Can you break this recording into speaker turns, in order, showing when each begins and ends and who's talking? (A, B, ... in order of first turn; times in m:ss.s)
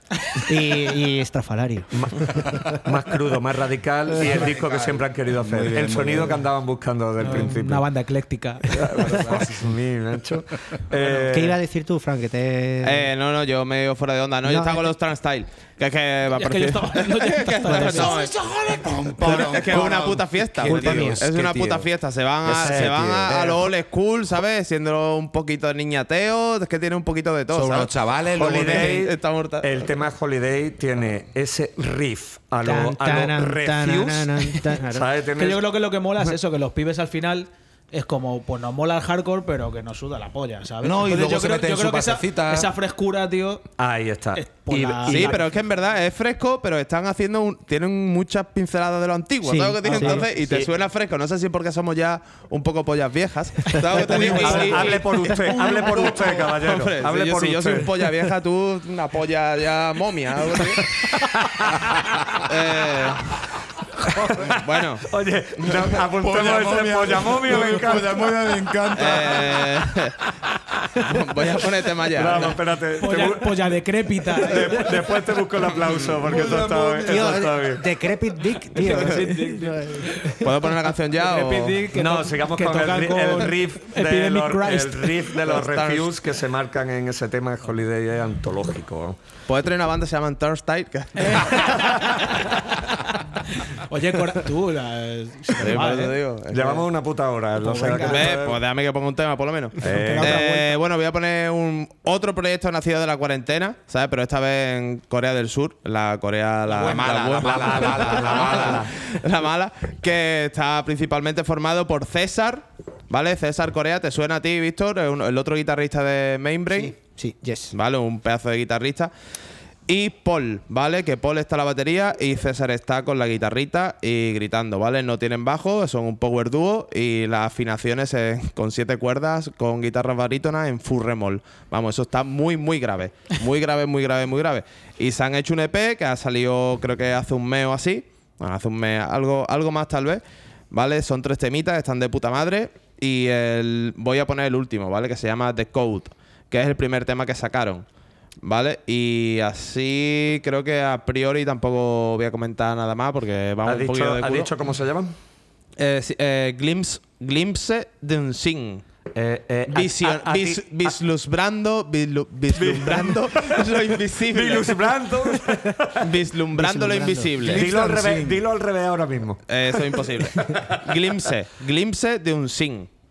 0:00.5-0:02.8 A
0:02.0-0:02.2 B
0:02.8-0:07.8 B
0:04.2-0:06.4 C
0:07.2-0:08.8 D
0:08.7-0:11.6 B
0:09.0-0:09.7 C
0:11.2-0:13.1 A
0:12.8-0:18.3 E
0:14.4-0:14.9 A
0:16.4-0:19.1 D
0:17.7-0:18.4 A
0:18.8-0:21.9 C
0:19.2-0:27.9 E
0:19.3-0:19.8 A
0:20.6-0:21.2 A
0:22.4-0:23.7 C
0:27.5-0:29.1 C
0:28.4-0:35.6 B
0:28.4-0:29.9 E
0:32.6-0:35.1 A
0:35.4-0:43.6 D
0:40.8-0:42.7 C
0:43.8-0:45.4 B
0:44.4-0:45.4 D
0:45.1-1:01.2 E
0:49.4-0:50.2 A
0:50.0-0:50.7 B
0:53.7-0:56.2 A
0:54.0-0:57.9 B
1:02.4-1:03.4 E
1:04.3-1:08.2 B
1:04.6-1:05.1 E
1:06.1-1:09.6 C
1:08.9-1:10.1 E
1:11.0-1:12.6 E
1:12.1-1:13.6 B
1:13.0-1:14.9 D
1:14.4-1:17.8 B
1:16.2-1:17.6 C
1:17.0-1:20.7 A
1:18.8-1:19.6 E
1:18.8-1:19.7 D
1:20.4-1:21.8 E
1:21.2-1:25.2 D
1:21.9-1:29.2 B
1:25.5-1:26.1 E
1:29.5-1:32.4 E
1:31.2-1:32.3 D
1:33.5-1:36.1 D
1:35.6-1:36.9 E
1:36.5-1:38.6 B
1:37.6-1:38.3 D
1:38.0-1:57.0 E
1:39.8-1:40.4 B
1:39.9-1:40.7 D
1:46.7-1:48.9 C
1:47.4-1:48.9 B
1:56.7-1:57.8 A
1:57.7-1:59.1 E
1:59.9-2:27.9 E
2:28.4-2:34.5 E
2:33.6-2:35.1 B
2:35.8-2:38.8 E
2:39.2-2:40.6 B
2:39.7-2:44.8 E
2:42.5-2:43.6 B
2:44.3-2:46.1 B
2:46.0-2:47.7 E
2:46.6-2:47.5 A
2:47.4-2:48.4 C
2:47.5-2:50.8 B
2:49.5-2:52.9 E